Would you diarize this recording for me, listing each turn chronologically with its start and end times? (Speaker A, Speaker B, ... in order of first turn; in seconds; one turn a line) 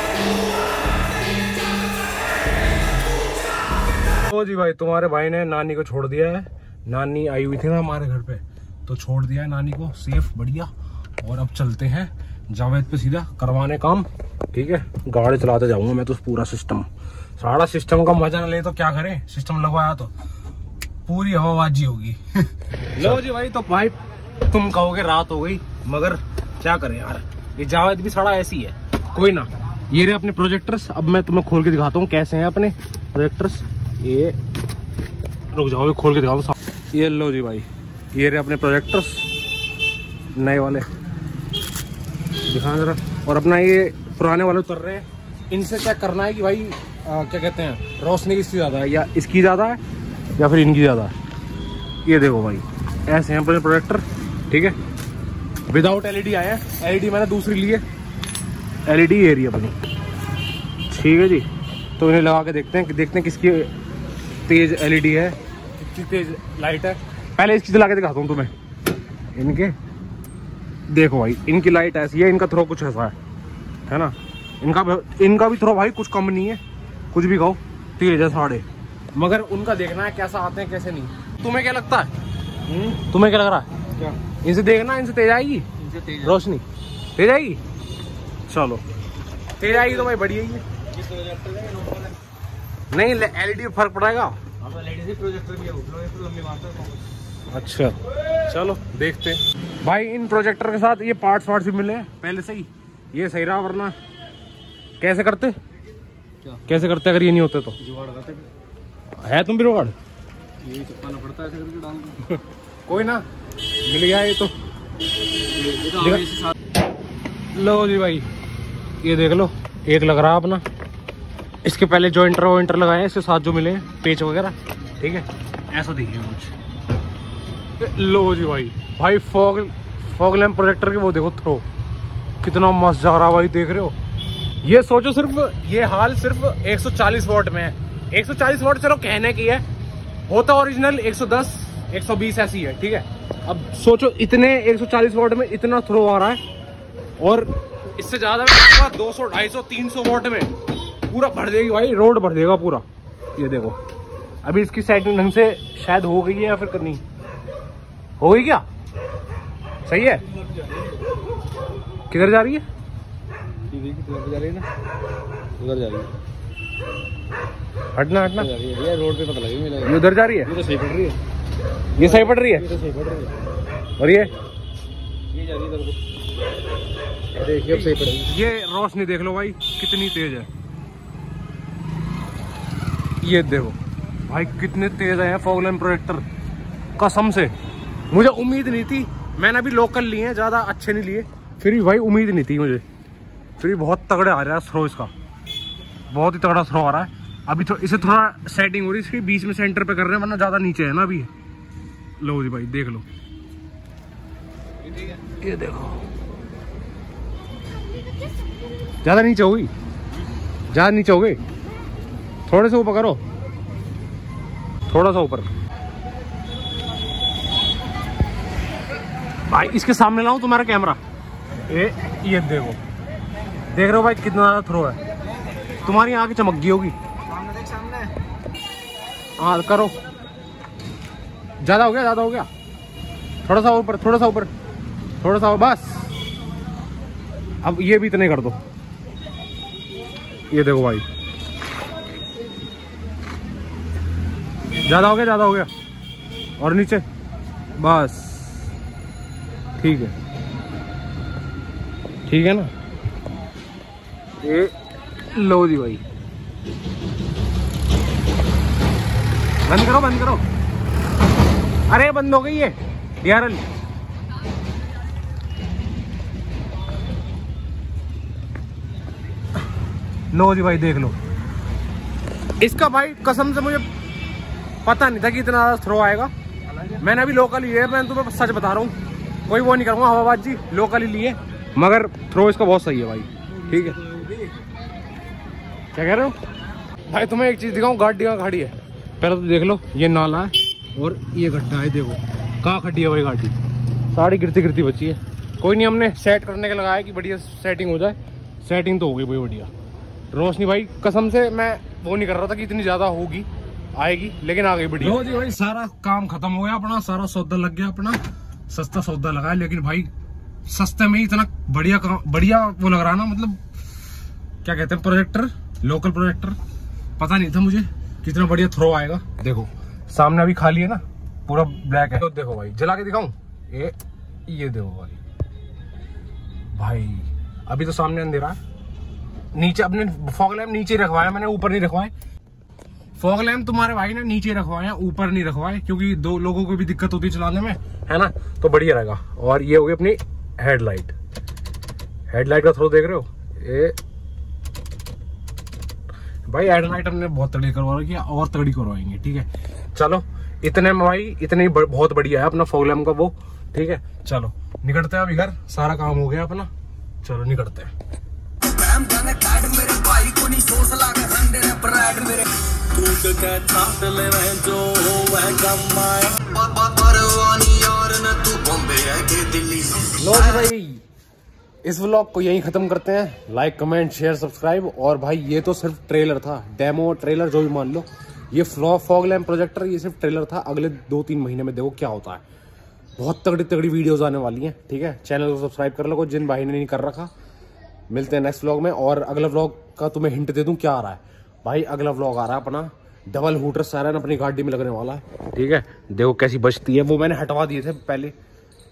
Speaker A: 4.1-20.1
Speaker A: 21.1-22.4
Speaker A: 22.9-34.4
Speaker A: 35.5-39.3
Speaker A: 40.3-40.9
Speaker A: 42.5-49.8
Speaker A: 50.4-51.1
Speaker A: 52.0-54.8
Speaker A: 55.7-57.8
Speaker A: 58.9-59.8
Speaker A: 60.9-63.7
Speaker A: 64.5-68.5
Speaker A: 69.3-69.8
Speaker A: 70.9-73.1
Speaker A: 73.9-76.6
Speaker A: 77.1-82.1
Speaker B: 82.7-83.0
Speaker A: 82.9-83.7
Speaker A: 84.3-86.6
Speaker B: 85.8-86.3
Speaker A: 87.2-87.6
Speaker A: 88.5-88.8
Speaker A: 89.6-90.6
Speaker B: 90.9-92.1
Speaker A: 92.9-94.4
Speaker B: 94.6-97.0
Speaker A: 97.5-103.9
Speaker A: 105.0-105.5
Speaker A: 106.6-107.8
Speaker B: 107.8-108.5
Speaker A: 109.2-110.0
Speaker B: 110.6-112.2
Speaker A: 112.2-113.2
Speaker A: 113.8-114.5
Speaker B: 115.5-116.5
Speaker A: 115.9-116.3
Speaker A: 117.5-118.3
Speaker A: 119.0-120.6
Speaker A: 121.6-126.5
Speaker A: 127.8-131.6
Speaker A: 132.4-133.9
Speaker A: 134.6-139.6
Speaker A: 140.3-146.4
Speaker A: 147.2-150.5
Speaker A: 151.1-152.8
Speaker A: 153.3-153.8
Speaker A: 154.4-157.0
Speaker A: 158.2-158.6
Speaker A: 159.8-160.2
Speaker B: 160.6-160.8
Speaker A: 162.1-162.6
Speaker B: 163.7-164.7
Speaker B: 165.6-166.1
Speaker A: 167.9-168.5
Speaker B: 168.4-171.2
Speaker A: 169.8-170.5
Speaker A: 171.9-172.7
Speaker B: 172.0-173.3
Speaker A: 174.0-174.3
Speaker B: 175.3-176.0
Speaker B: 177.3-178.3
Speaker A: 177.5-180.5
Speaker A: 183.2-186.2
Speaker A: 187.0-187.5
Speaker A: 188.1-192.8
Speaker A: 193.6-195.1
Speaker A: 196.1-201.3
Speaker A: 202.2-203.1
Speaker A: 205.3-206.0
Speaker A: 209.0-209.7
Speaker A: 210.7-211.4
Speaker A: 212.5-213.2
Speaker A: 214.9-215.5
Speaker A: 219.4-221.0
Speaker A: 221.7-222.8
Speaker A: 223.7-225.0
Speaker A: 225.8-226.9
Speaker B: 227.5-228.0
Speaker A: 229.4-229.9
Speaker A: 231.6-232.5
Speaker A: 233.4-234.5
Speaker A: 235.2-236.1
Speaker A: 237.6-238.6
Speaker A: 240.5-241.1
Speaker A: 244.8-245.7
Speaker A: 246.6-247.0
Speaker A: 247.8-248.7
Speaker A: 249.8-250.1
Speaker A: 252.3-252.7
Speaker A: 254.4-256.0
Speaker A: 259.6-260.4
Speaker A: 261.9-263.6
Speaker A: 270.3-271.1
Speaker A: 272.6-273.9
Speaker A: 274.8-276.3
Speaker A: 276.9-278.9
Speaker A: 279.5-284.0
Speaker B: 283.7-284.6
Speaker A: 285.9-286.4
Speaker A: 287.0-293.6
Speaker A: 294.1-299.7
Speaker A: 300.3-310.1
Speaker A: 310.6-313.6
Speaker A: 314.6-316.6
Speaker A: 317.2-323.9
Speaker A: 324.5-325.2
Speaker A: 326.7-328.6
Speaker A: 329.5-332.1
Speaker A: 333.1-341.1
Speaker A: 342.3-344.0
Speaker A: 346.4-356.7
Speaker A: 357.2-357.9
Speaker C: 358.6-370.1
Speaker A: 370.1-371.0
Speaker A: 371.8-382.4
Speaker A: 383.2-387.3
Speaker A: 388.1-398.3